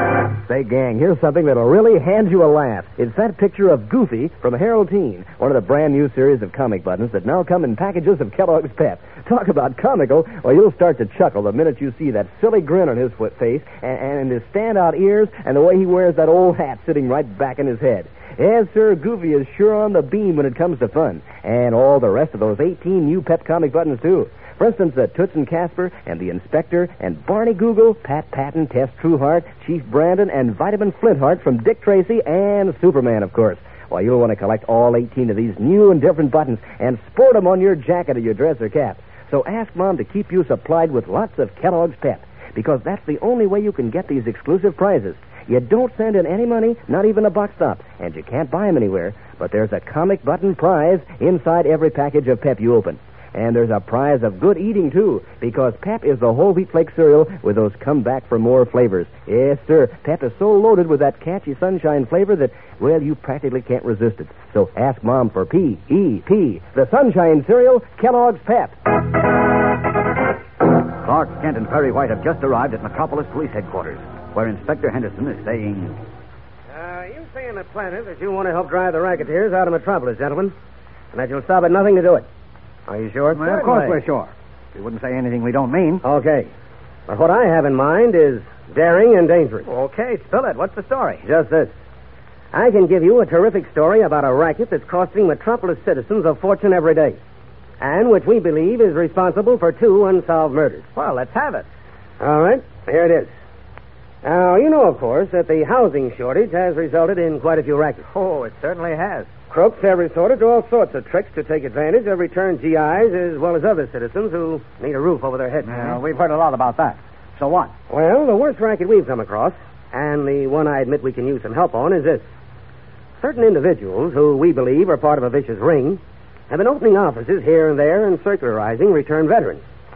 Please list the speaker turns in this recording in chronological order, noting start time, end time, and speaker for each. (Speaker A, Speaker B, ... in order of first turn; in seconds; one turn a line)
Speaker A: 0.5-68.8
Speaker B: 71.0-76.0
Speaker C: 76.7-80.5
Speaker C: 81.1-82.3
Speaker C: 82.9-83.4
Speaker D: 83.3-86.0
Speaker E: 83.5-84.0
Speaker C: 86.0-86.5
Speaker C: 87.1-89.7
Speaker E: 89.7-91.2
Speaker C: 91.2-91.7
Speaker C: 92.5-97.2
Speaker C: 97.8-100.9
Speaker E: 101.0-101.7
Speaker C: 102.2-103.3
Speaker C: 104.2-108.1
Speaker E: 108.1-109.3
Speaker C: 109.5-116.0
Speaker D: 115.7-117.7
Speaker C: 117.9-122.2
Speaker C: 123.2-129.6